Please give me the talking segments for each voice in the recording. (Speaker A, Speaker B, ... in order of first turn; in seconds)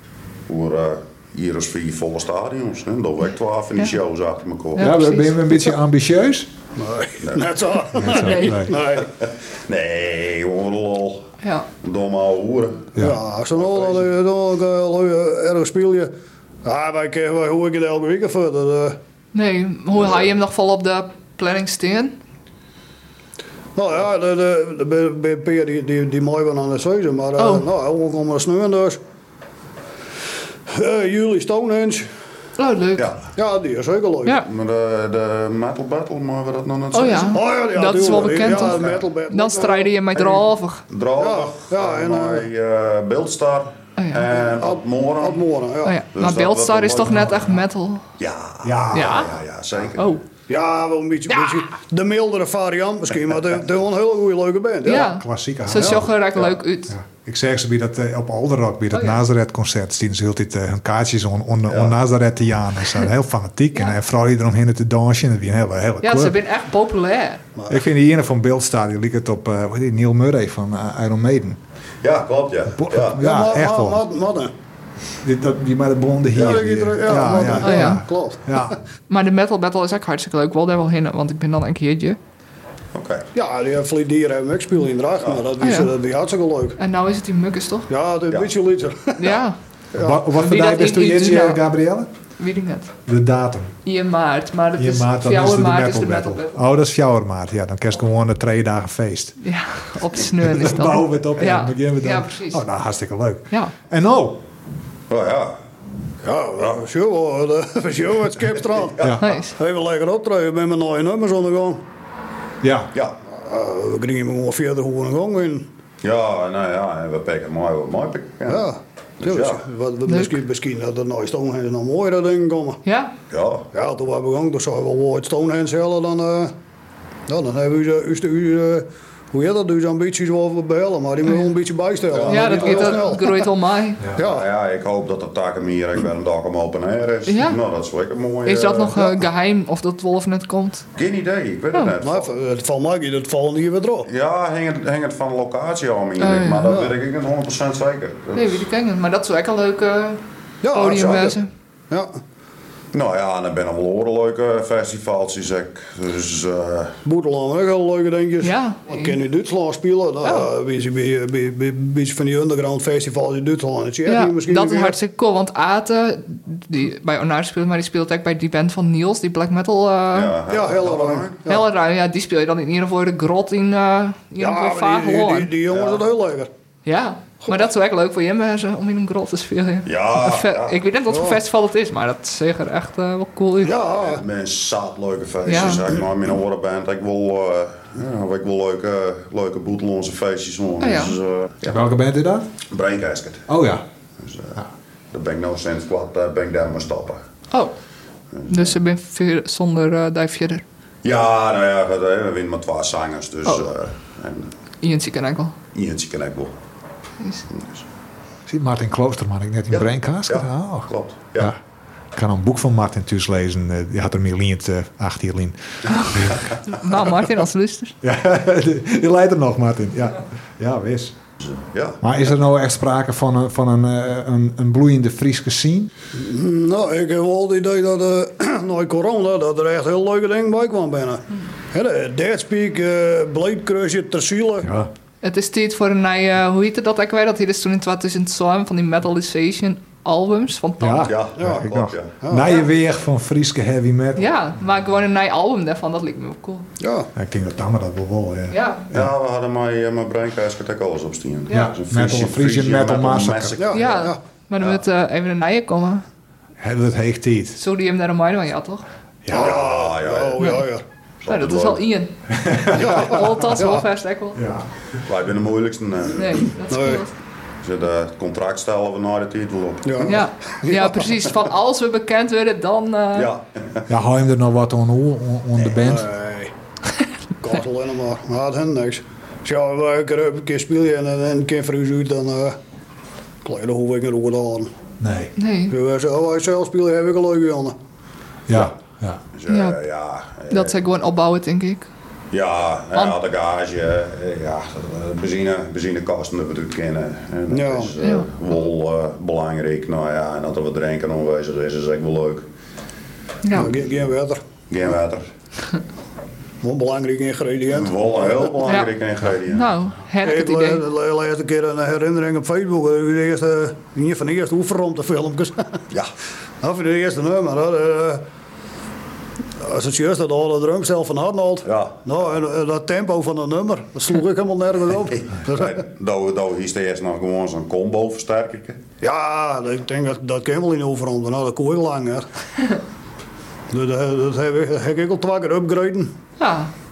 Speaker A: 0.5-4.9, 7.2-7.5, 9.0-11.3, 11.8-12.9, 33.0-33.2, 34.4-37.4, 38.7-38.9, 40.2-45.4, 46.1-47.4, 48.2-50.2, 61.7-61.9, 72.0-73.2, 82.9-83.3, 105.1-105.6, 116.0-118.6, 119.2-119.6, 123.3-123.7, 132.1-133.0, 134.2-139.0, 140.9-142.3, 144.1-148.6, 152.9-157.0, 170.1-171.4, 175.7-176.0, 179.8-180.8, 183.8-191.8, 192.7-193.5, 194.2-194.6, 195.1-197.2, 198.3-198.7, 201.0-204.5, 205.7-206.5, 207.5-207.8, 209.7-211.5, 221.4-222.0, 241.0-242.2, 248.9-253.8, 259.3-260.4, 261.2-261.8, 265.0-266.5, 267.6-270.2, 273.1-273.8, 289.3-290.8, 292.3-302.4, 304.7-305.2, 307.7-309.7, 321.6-321.9, 325.4-328.8
Speaker B: 4.8-5.6, 8.1-8.7, 11.4-11.7, 19.3-22.1, 27.4-27.7, 32.6-33.1, 36.9-40.8, 44.0-44.3, 45.8-48.1, 48.9-49.3, 50.0-50.2, 54.8-56.9, 58.9-59.2, 66.0-67.4, 77.6-78.0, 79.1-82.2, 85.6-85.9, 86.8-87.9, 89.2-89.6, 90.3-91.6, 92.4-92.9, 93.8-96.5, 99.4-102.6, 109.2-109.5, 120.1-120.4, 122.8-123.1, 132.3-134.1, 137.3-137.6, 138.4-140.9, 146.2-146.7, 148.3-150.2, 150.7-151.5, 158.4-159.2, 160.2-160.5, 164.1-170.4, 171.5-175.5, 176.8-183.7, 185.4-185.9, 190.8-191.2, 198.5-200.6, 204.8-205.6, 207.2-207.5, 216.7-218.0, 235.2-241.2, 244.2-246.7, 248.5-248.9, 253.7-256.0, 257.6-258.8, 261.3-262.1, 262.7-264.4, 266.2-267.1, 270.1-273.3, 285.4-285.7, 289.5-289.8, 290.5-291.9, 298.0-298.3, 303.4-303.7, 308.7-308.9, 309.4-310.8, 336.4-336.7
Speaker C: 4.8-6.5, 8.0-8.7, 48.6-49.3, 55.0-56.1, 56.9-66.4, 67.7-71.6, 72.7-74.0, 75.2-78.8, 90.0-92.1, 93.0-93.8, 94.8-99.4, 100.4-104.4, 109.0-109.3, 112.6-112.9, 191.7-192.5, 193.5-193.8, 208.5-211.6, 212.1-216.4, 218.0-221.2, 222.0-225.9, 234.6-234.9, 240.8-244.4, 247.1-249.1, 251.5-253.6, 256.6-257.6, 259.2-259.5, 262.3-263.5, 264.3-264.7, 273.9-276.1, 285.0-285.3, 288.5-289.2
Speaker D: 6.8-9.1, 12.9-16.1, 16.6-19.0, 23.7-29.0, 30.7-32.1, 33.4-34.4, 37.3-40.0, 41.1-42.5, 44.4-46.0, 50.5-55.1, 73.1-74.5, 76.3-78.8, 83.3-86.8, 87.9-89.4, 106.2-111.8, 113.3-115.7, 118.5-122.8, 123.7-126.5, 127.3-133.5, 134.2-134.5, 142.0-144.1, 146.7-146.9, 150.6-151.4, 151.9-152.2, 157.0-165.0, 170.5-171.7, 174.4-176.5, 181.1-181.4, 183.7-184.2, 226.1-234.7, 241.3-241.7, 242.2-242.6, 246.8-247.1, 253.6-254.2, 259.3-260.8, 262.8-263.9, 266.7-267.1, 269.8-271.0, 275.6-276.5, 277.4-282.6, 283.4-284.7, 285.7-287.8, 297.5-297.9, 303.5-304.4, 306.6-308.5, 310.2-315.8, 316.6-318.2, 319.6-325.8, 329.0-332.3, 333.7-336.1